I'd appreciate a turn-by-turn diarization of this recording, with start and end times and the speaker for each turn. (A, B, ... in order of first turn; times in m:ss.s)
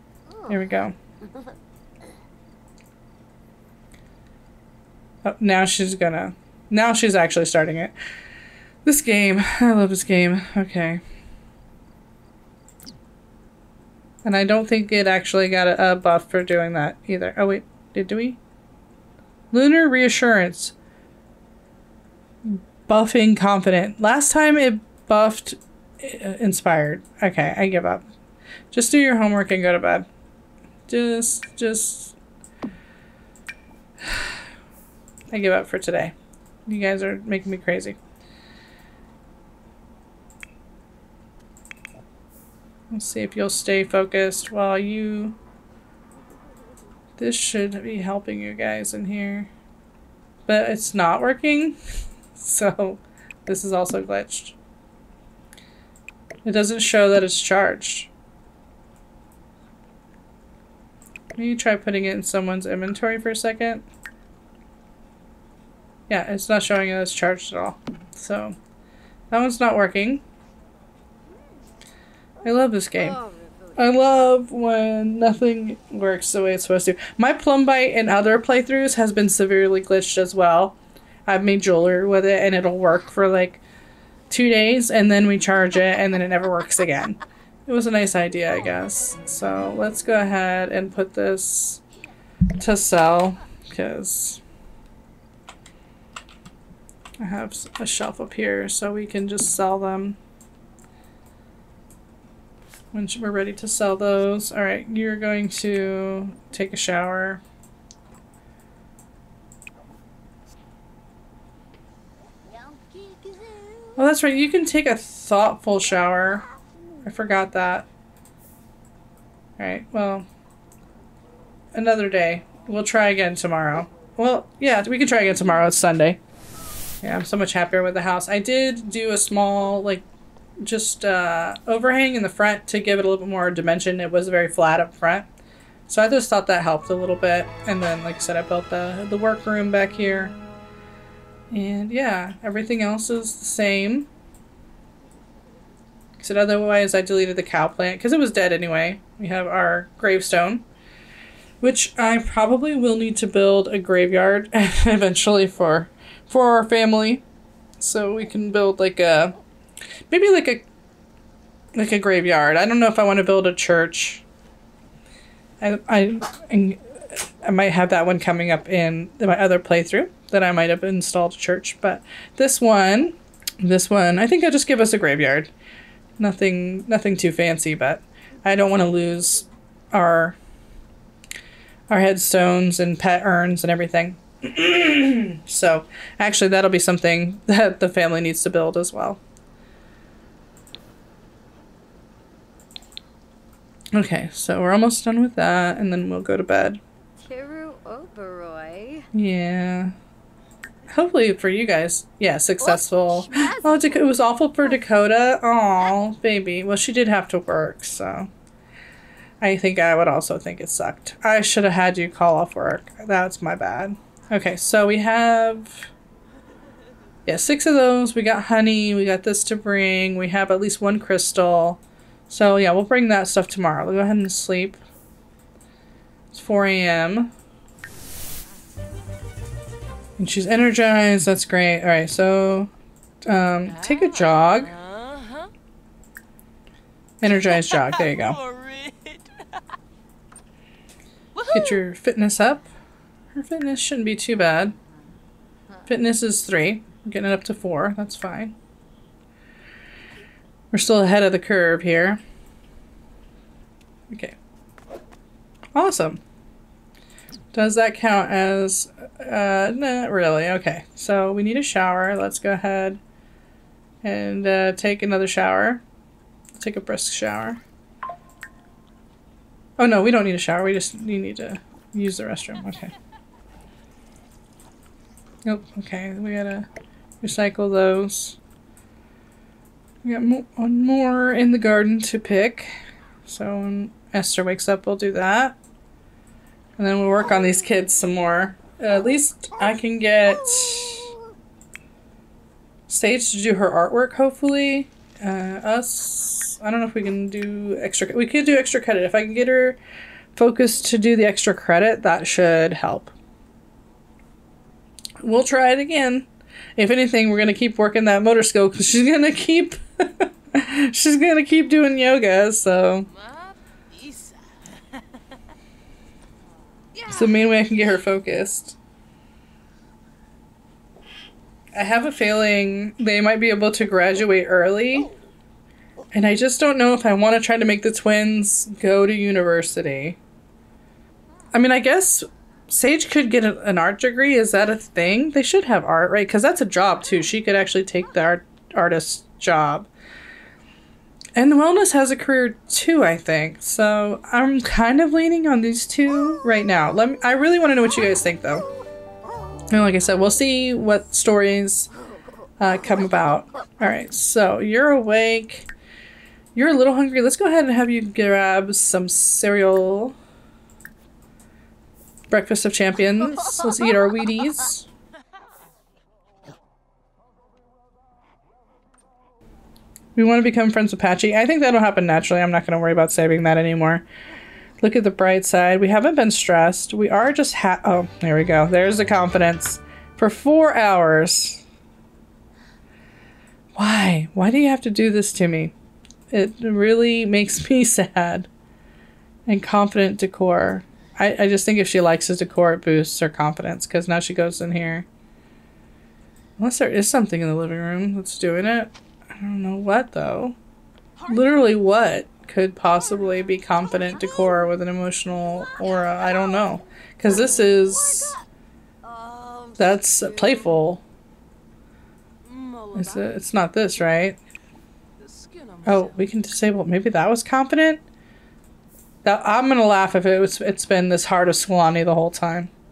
0:00.3-0:00.6 A
0:00.5-0:00.9 B
0:05.2-0:07.9 B
0:08.8-0:11.0 B
0:14.2-0:18.4 B
0:19.5-0:20.7 B
0:22.4-0:28.1 B
0:28.7-0:30.1 B
0:30.9-0:32.1 B
0:34.0-0:34.4 B
0:35.3-0:36.1 B
0:36.7-0:38.0 B
0:42.9-0:45.4 B
0:47.2-0:49.5 B
0:50.5-0:51.8 B
0:52.4-0:54.6 B
0:56.4-0:58.1 B
1:01.3-1:03.8 B
1:06.1-1:08.6 B
1:09.3-1:10.2 B
1:12.4-1:13.2 B
1:12.9-1:14.0 A
1:13.8-1:23.6 B
1:24.3-1:31.8 B
1:32.6-1:34.4 B
1:37.2-1:40.2 B
1:42.9-1:47.4 B
1:52.4-1:54.0 A
1:54.0-1:56.4 B
1:57.0-1:57.9 B
1:59.6-2:00.3 B
2:01.7-2:06.2 B
2:07.0-2:10.0 B
2:10.6-2:15.3 B
2:15.9-2:20.3 B
2:21.5-2:24.1 B
2:26.2-2:30.6 B
2:31.6-2:37.2 B
2:37.8-2:39.4 B
2:40.1-2:40.6 B
2:41.7-2:44.2 B
2:45.6-2:55.5 B
2:56.2-3:00.4 B
3:01.9-3:09.2 B
3:13.9-3:16.8 B
3:17.2-3:19.1 A
3:19.1-3:19.9 B
3:20.9-3:28.3 B
3:22.6-3:24.2 A
3:29.4-3:35.9 B
3:37.2-3:44.8 B
3:46.3-3:47.3 B
3:50.2-3:52.7 B
3:53.2-3:54.7 B
3:53.6-3:55.5 C
3:57.2-3:58.4 B
3:57.2-3:59.6 C
4:01.3-4:01.8 C
4:01.5-4:02.7 B
4:03.3-4:04.7 B
4:05.9-4:08.5 B
4:10.7-4:12.2 B
4:14.1-4:14.4 B
4:15.7-4:16.2 B
4:17.5-4:23.0 B
4:24.0-4:25.8 B
4:26.5-4:27.6 B
4:29.8-4:32.9 B
4:35.4-4:36.7 B
4:37.2-4:38.4 B
4:40.0-4:42.7 B
4:43.2-4:45.6 B
4:46.8-4:51.1 B
4:52.9-4:59.8 B
5:00.3-5:03.1 B
5:05.2-5:13.1 B
5:13.1-5:15.2 C
5:16.9-5:17.5 C
5:17.1-5:18.8 B
5:21.7-5:25.1 B
5:26.1-5:30.2 B
5:31.5-5:39.9 B
5:41.3-5:48.7 B
5:49.7-5:51.9 B
5:52.6-5:55.7 B
5:56.5-6:00.2 B
6:02.3-6:04.8 B
6:10.1-6:14.0 B
6:14.8-6:21.6 B
6:23.8-6:25.7 B
6:26.3-6:28.5 B
6:29.5-6:35.1 B
6:36.6-6:40.6 B
6:41.3-6:48.4 B
6:47.9-6:48.3 A
6:49.0-6:50.6 C
6:49.8-6:51.0 B
6:52.4-6:53.4 C
6:52.9-6:54.4 B
6:55.2-6:56.3 C
6:55.8-6:58.0 B
6:59.2-7:02.7 B